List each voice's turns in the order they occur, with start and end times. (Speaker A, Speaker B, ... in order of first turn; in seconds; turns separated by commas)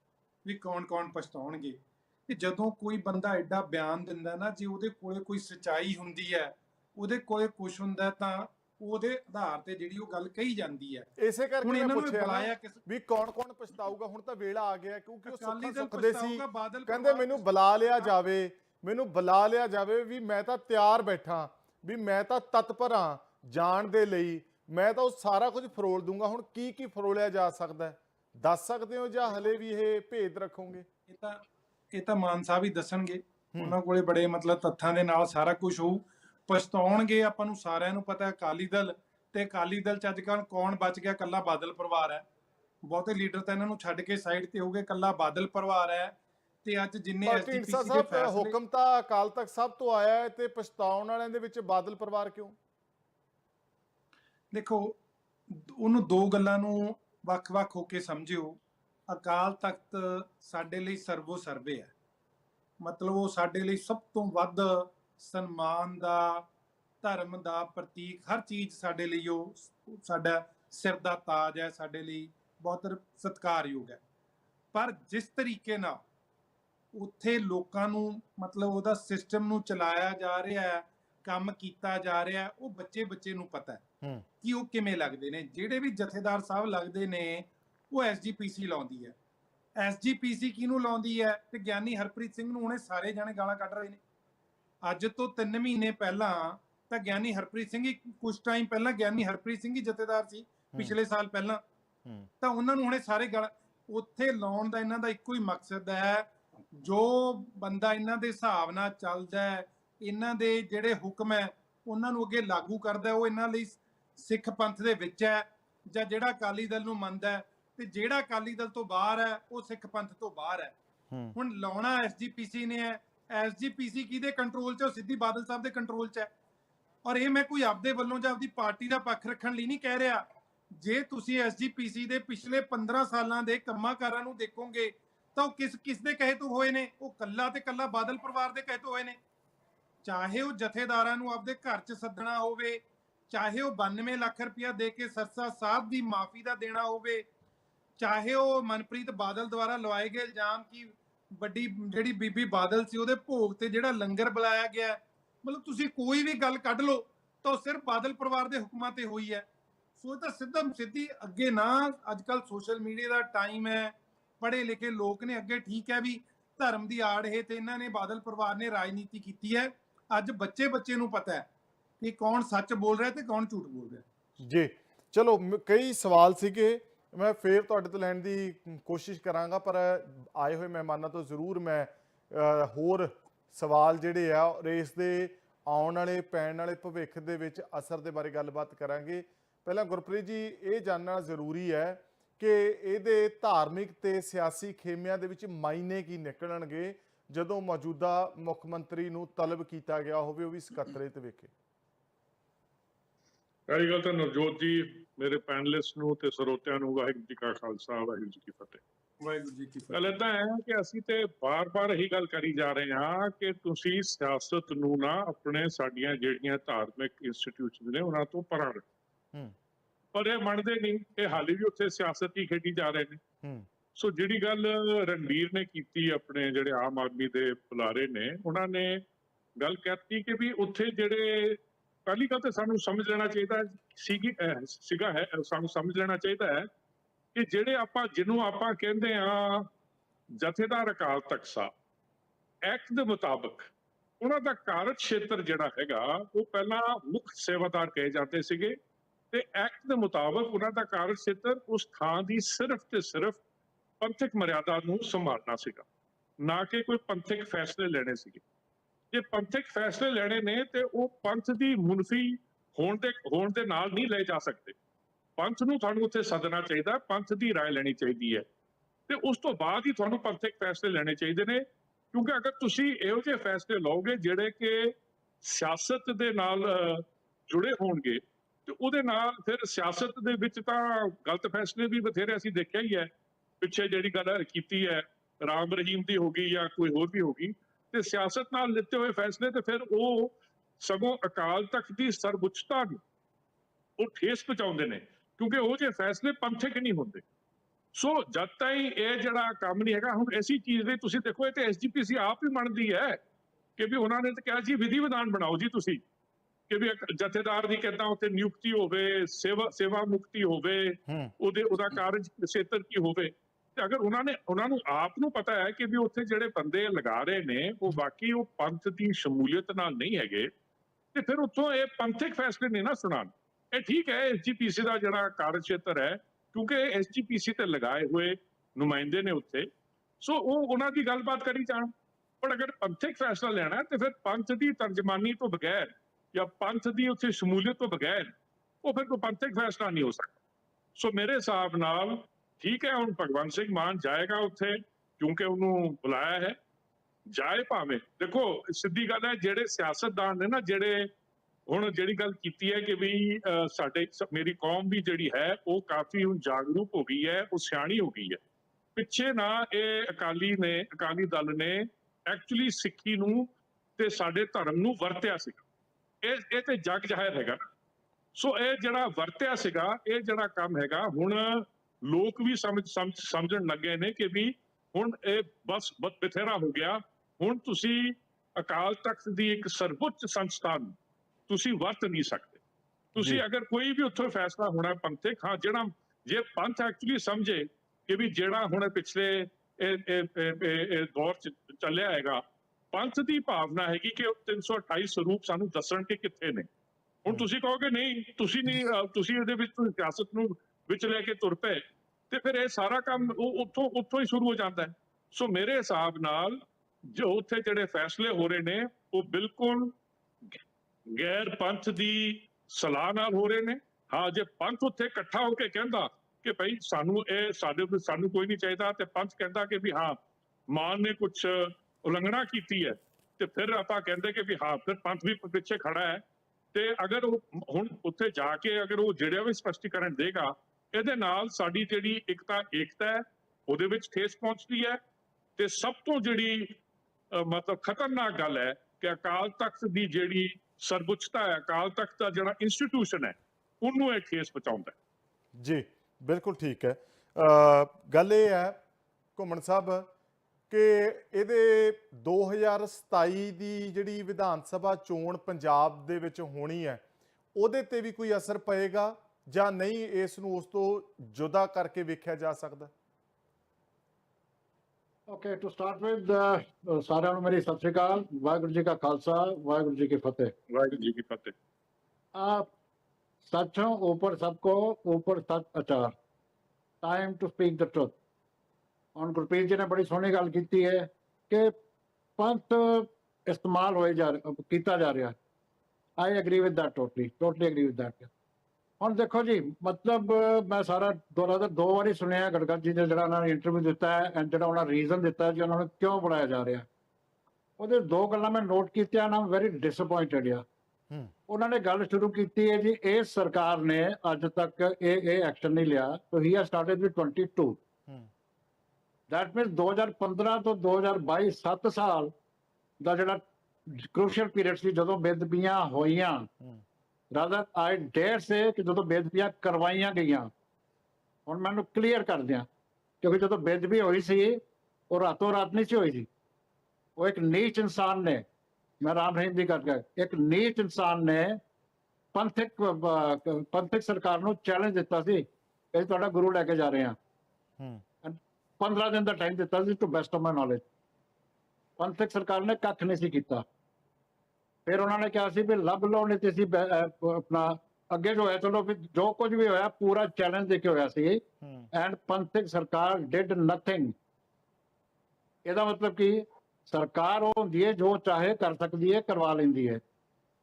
Speaker A: 0.4-11.1, Speaker B: 11.2-30.9, Speaker A: 11.6-12.8, Speaker A: 15.3-18.1, Speaker A: 31.1-42.2, Speaker A: 42.8-48.5, Speaker B: 47.2-52.5, Speaker A: 54.5-55.0, Speaker A: 55.5-61.9, Speaker A: 62.8-66.5, Speaker A: 67.0-74.0, Speaker A: 74.7-76.0, Speaker A: 76.9-83.8, Speaker A: 84.4-89.2, Speaker A: 89.8-94.0, Speaker A: 94.8-101.6, Speaker A: 102.4-120.7, Speaker B: 121.1-121.3, Speaker A: 121.3-126.3, Speaker A: 127.0-130.2, Speaker A: 130.8-139.2, Speaker A: 140.0-147.3, Speaker A: 148.0-159.5, Speaker A: 160.0-171.5, Speaker A: 172.0-174.0, Speaker B: 174.4-201.5, Speaker C: 203.7-208.8, Speaker A: 209.2-210.2, Speaker C: 209.9-218.8, Speaker C: 220.1-223.2, Speaker C: 223.9-229.0, Speaker C: 229.6-236.7, Speaker C: 237.3-239.7, Speaker C: 240.4-241.7, Speaker C: 242.6-248.8, Speaker C: 249.3-253.4, Speaker C: 254.0-255.8, Speaker C: 256.4-258.4, Speaker C: 259.1-264.7, Speaker C: 265.4-268.4, Speaker C: 269.1-283.1, Speaker C: 283.6-293.0, Speaker C: 294.0-297.2, Speaker C: 297.9-303.2, Speaker C: 303.8-306.0, Speaker C: 306.7-320.5, Speaker C: 321.1-329.7, Speaker C: 330.2-338.3, Speaker C: 338.8-340.4, Speaker C: 341.0-346.6, Speaker C: 347.3-351.1, Speaker C: 351.7-358.4, Speaker C: 358.9-365.6, Speaker C: 366.2-367.6, Speaker C: 368.3-380.9, Speaker C: 381.5-382.6, Speaker C: 383.1-396.7, Speaker B: 383.2-383.4, Speaker C: 397.2-409.9, Speaker C: 411.1-420.2, Speaker C: 420.7-426.2, Speaker C: 426.7-435.0, Speaker C: 435.6-436.8, Speaker C: 437.3-444.9, Speaker B: 445.6-448.8, Speaker B: 449.4-450.1, Speaker B: 450.7-457.0, Speaker B: 457.5-462.9, Speaker D: 465.3-470.5, Speaker C: 470.7-471.5, Speaker D: 472.3-472.7, Speaker D: 473.4-476.1, Speaker D: 477.0-478.1, Speaker D: 479.1-481.7, Speaker D: 482.4-485.3, Speaker D: 486.2-488.3, Speaker D: 489.0-496.9, Speaker D: 497.8-500.6, Speaker D: 501.5-507.8, Speaker D: 509.3-512.3, Speaker D: 513.0-516.5, Speaker D: 517.3-520.5, Speaker D: 521.5-522.6, Speaker D: 523.2-526.3, Speaker D: 527.2-528.4, Speaker D: 529.0-531.6, Speaker D: 532.3-537.1, Speaker B: 537.8-538.0, Speaker D: 538.2-540.8, Speaker D: 542.0-543.6, Speaker D: 544.9-554.1, Speaker B: 551.6-551.9, Speaker D: 555.6-560.0